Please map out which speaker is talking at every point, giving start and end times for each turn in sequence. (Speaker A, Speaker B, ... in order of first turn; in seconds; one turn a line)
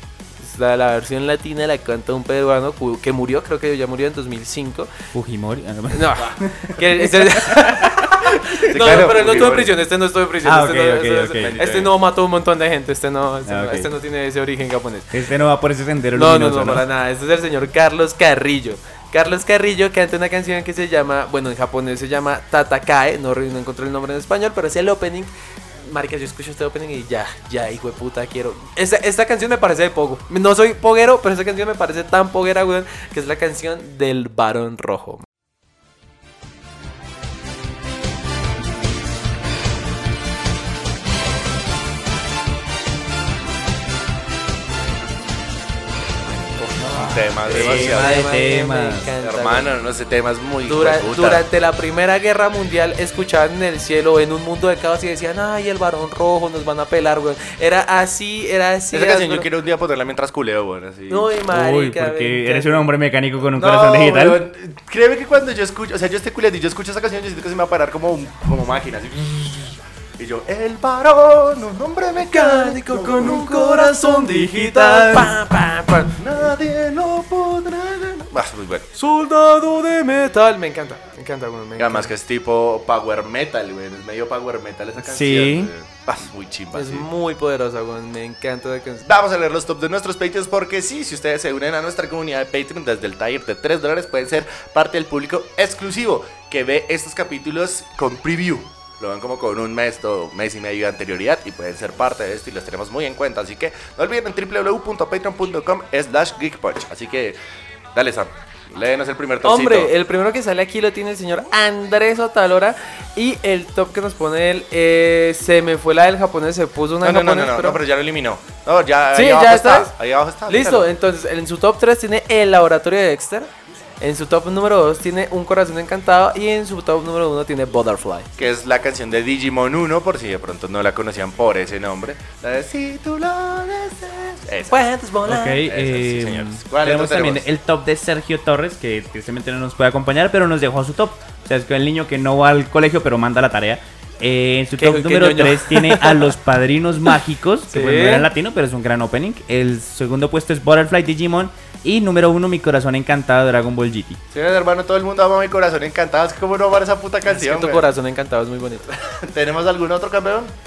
Speaker A: 0.4-4.9
Speaker B: 5.1-6.7
Speaker A: 5.9-15.1
Speaker B: 7.3-8.6
Speaker C: 8.7-9.8
Speaker B: 10.4-11.6
Speaker C: 11.4-11.9
Speaker B: 13.5-13.9
Speaker B: 15.1-16.8
Speaker A: 16.1-35.2
Speaker A: 46.8-49.7
Speaker B: 46.8-49.1
Speaker C: 46.9-48.1
Speaker C: 49.2-51.4
Speaker A: 50.6-59.5
Speaker C: 58.9-61.3
Speaker A: 61.1-62.9
Speaker B: 61.5-64.4
Speaker C: 63.5-74.0
Speaker A: 72.2-76.2
Speaker B: 74.1-75.3
Speaker C: 76.2-78.9
Speaker A: 78.9-82.1
Speaker C: 81.8-87.1
Speaker B: 85.0-85.7
Speaker A: 86.7-89.1
Speaker C: 89.0-107.4
Speaker C: 107.9-109.9
Speaker A: 109.4-117.8
Speaker C: 117.0-120.9
Speaker A: 119.1-119.9
Speaker A: 120.5-123.5
Speaker A: 124.0-128.3
Speaker C: 128.4-134.9
Speaker A: 134.7-135.6
Speaker B: 135.3-154.2
Speaker C: 135.6-137.4
Speaker A: 144.8-146.3
Speaker A: 147.7-148.3
Speaker C: 154.3-157.8
Speaker A: 157.2-158.9
Speaker C: 159.1-160.5